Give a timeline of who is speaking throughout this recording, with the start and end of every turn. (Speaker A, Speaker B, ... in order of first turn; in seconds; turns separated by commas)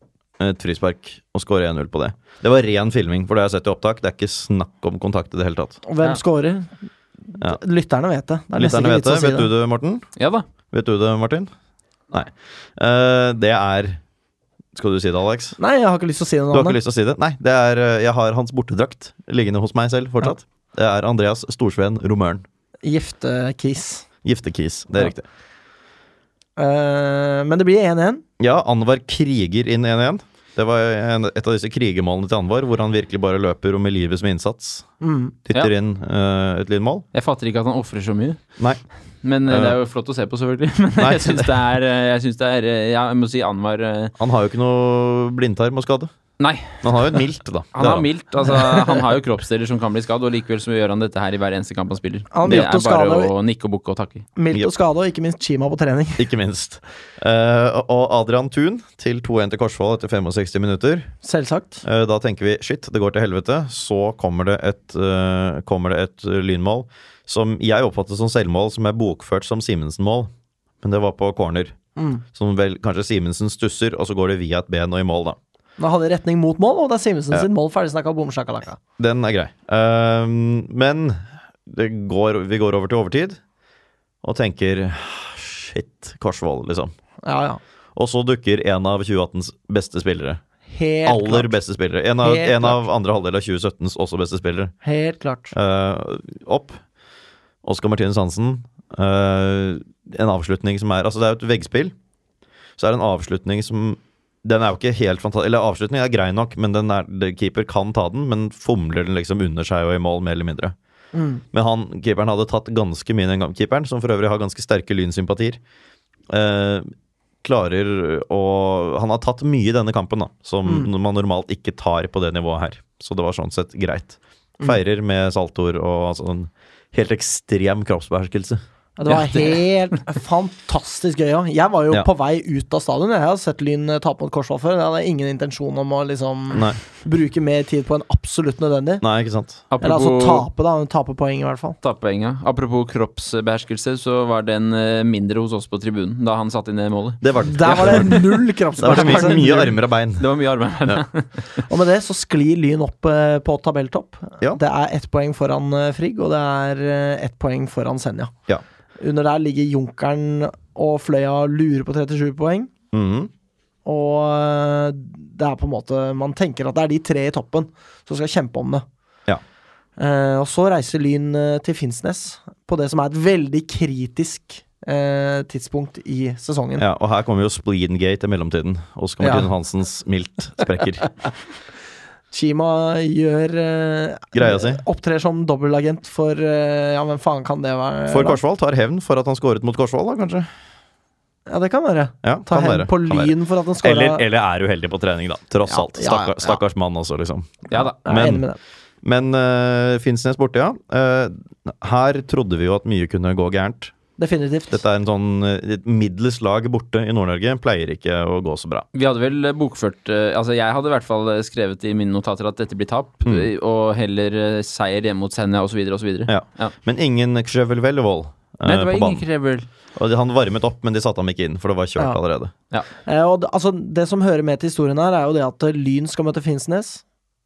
Speaker A: 0.4-5.8, Speaker B: 5.9-6.7, Speaker B: 7.3-9.5, Speaker A: 8.5-10.1, Speaker C: 10.2-10.4, Speaker A: 10.7-11.5, Speaker A: 12.1-14.0, Speaker A: 14.8-15.6, Speaker B: 15.6-16.8, Speaker A: 16.5-22.4, Speaker B: 22.8-24.1, Speaker A: 24.2-25.3, Speaker B: 26.6-28.2, Speaker A: 28.4-34.9, Speaker B: 35.0-35.4, Speaker A: 35.5-37.1, Speaker C: 37.1-38.4, Speaker C: 39.2-44.1, Speaker A: 39.5-39.8, Speaker A: 41.0-41.5, Speaker A: 44.2-46.1, Speaker C: 46.4-47.2, Speaker A: 46.8-48.1, Speaker C: 47.8-54.3, Speaker B: 52.3-53.3, Speaker B: 54.4-56.3, Speaker A: 56.2-61.1, Speaker B: 61.2-61.8, Speaker A: 61.8-70.3, Speaker A: 70.8-71.8, Speaker B: 72.0-72.2, Speaker A: 72.3-75.4, Speaker B: 75.8-78.8, Speaker A: 79.0-83.4, Speaker A: 84.2-86.9, Speaker B: 87.2-87.6, Speaker A: 88.0-90.4, Speaker B: 90.7-91.6, Speaker A: 91.0-94.7, Speaker B: 92.2-92.9, Speaker B: 94.8-95.5, Speaker A: 95.5-96.8, Speaker A: 97.6-101.9, Speaker A: 102.8-110.8, Speaker B: 111.1-111.4, Speaker A: 111.5-115.6, Speaker A: 116.3-116.9, Speaker A: 117.4-128.6, Speaker B: 120.7-120.9, Speaker B: 129.0-139.0, Speaker C: 129.1-129.6, Speaker A: 136.5-136.8, Speaker A: 139.0-139.6, Speaker C: 139.7-140.5, Speaker B: 139.8-141.8, Speaker C: 141.8-151.6, Speaker A: 147.2-150.2, Speaker B: 147.4-149.7, Speaker B: 151.7-158.3, Speaker B: 159.0-162.7, Speaker A: 162.9-163.3, Speaker B: 163.8-168.8, Speaker B: 170.0-176.8, Speaker A: 176.8-181.1, Speaker B: 179.2-179.5, Speaker B: 182.3-188.4, Speaker A: 184.3-184.8, Speaker A: 188.1-190.5, Speaker B: 191.5-194.2, Speaker A: 192.2-198.4, Speaker B: 195.7-196.6, Speaker B: 197.8-198.6, Speaker A: 199.0-203.9, Speaker B: 204.2-204.8, Speaker A: 204.7-208.8, Speaker C: 208.9-216.7, Speaker A: 216.3-219.2, Speaker C: 218.7-219.7, Speaker A: 220.0-222.5, Speaker B: 223.1-227.0